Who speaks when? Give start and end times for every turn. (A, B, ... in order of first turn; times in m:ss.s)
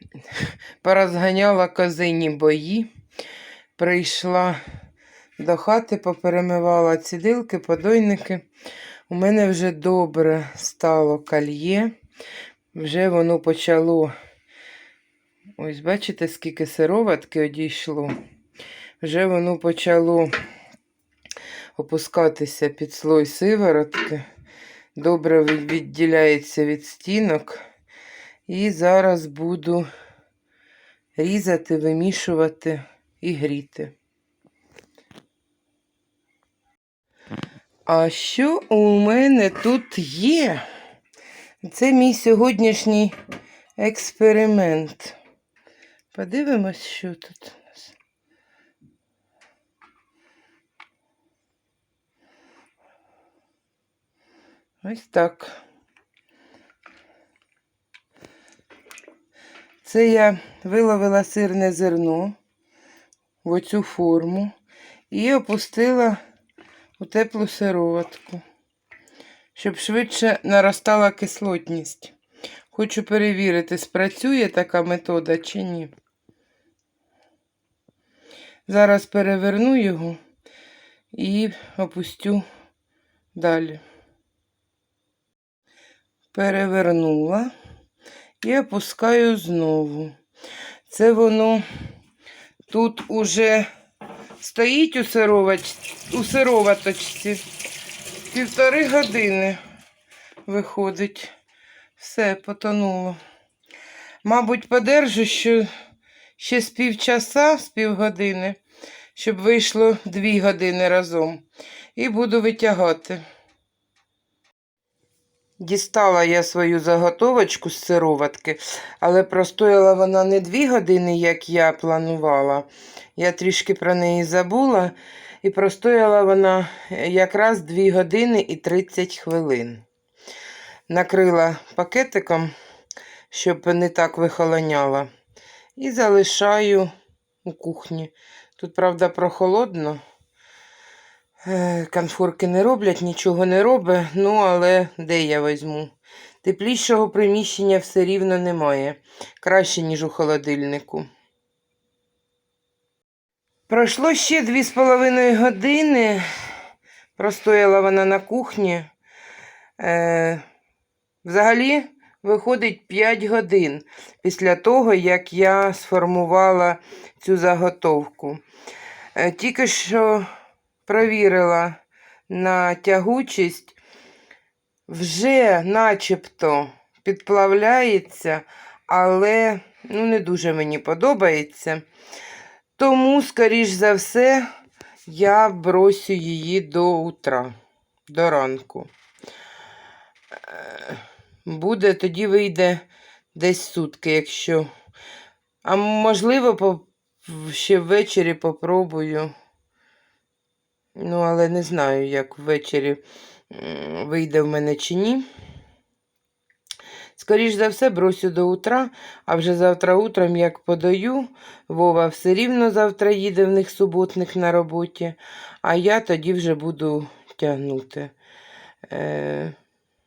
0:00.8-0:02.9 A
0:03.8-0:04.6 A
0:05.4-0:08.4 A
0:09.1-0:11.9 A
0:12.8-0:14.1 A
0:15.6-0:18.1 A
0:19.0-0:20.3 A
0:21.8-0:24.2 A
0:25.0-0:27.6 A
0:28.5-0:29.9 A
0:31.2-0:33.9 A
0:37.9-0:40.6 A
0:41.6-0:43.2 A
0:43.8-0:45.2 A
0:46.1-0:47.8 A
0:54.8-0:55.5 A
0:59.8-1:02.4 A
1:03.4-1:04.5 A
1:05.1-1:06.2 A
1:07.0-1:08.4 A
1:09.6-1:12.1 A
1:12.7-1:15.9 A
1:18.7-1:20.2 A
1:21.1-1:22.4 A
1:23.4-1:23.8 A
1:26.3-1:27.5 A
1:28.4-1:30.1 A
1:30.9-1:31.6 A
1:32.7-1:33.7 A
1:34.4-1:37.4 A
1:38.3-1:39.6 A
1:40.5-1:41.3 A
1:42.0-1:43.2 A
1:44.2-1:45.7 A
1:46.4-1:48.6 A
1:49.2-1:51.4 A
1:52.0-1:53.2 A
1:55.6-2:09.8 A
2:10.9-2:12.5 A
2:13.3-2:15.1 A
2:15.8-2:16.9 A
2:17.4-2:20.0 A
2:21.4-2:25.9 A
2:26.4-2:31.1 A
2:33.7-2:36.3 A
2:37.2-2:38.9 A
2:39.8-2:40.4 A
2:41.2-2:48.4 A
2:49.2-2:50.3 A
2:50.9-2:51.8 A
2:52.3-2:53.8 A
2:54.9-3:01.8 A
3:02.8-3:04.5 A
3:05.1-3:07.6 A
3:08.1-3:08.9 A
3:10.4-3:14.7 A
3:15.6-3:19.3 A
3:21.0-3:25.3 A
3:27.2-3:38.1 A
3:38.9-3:39.6 A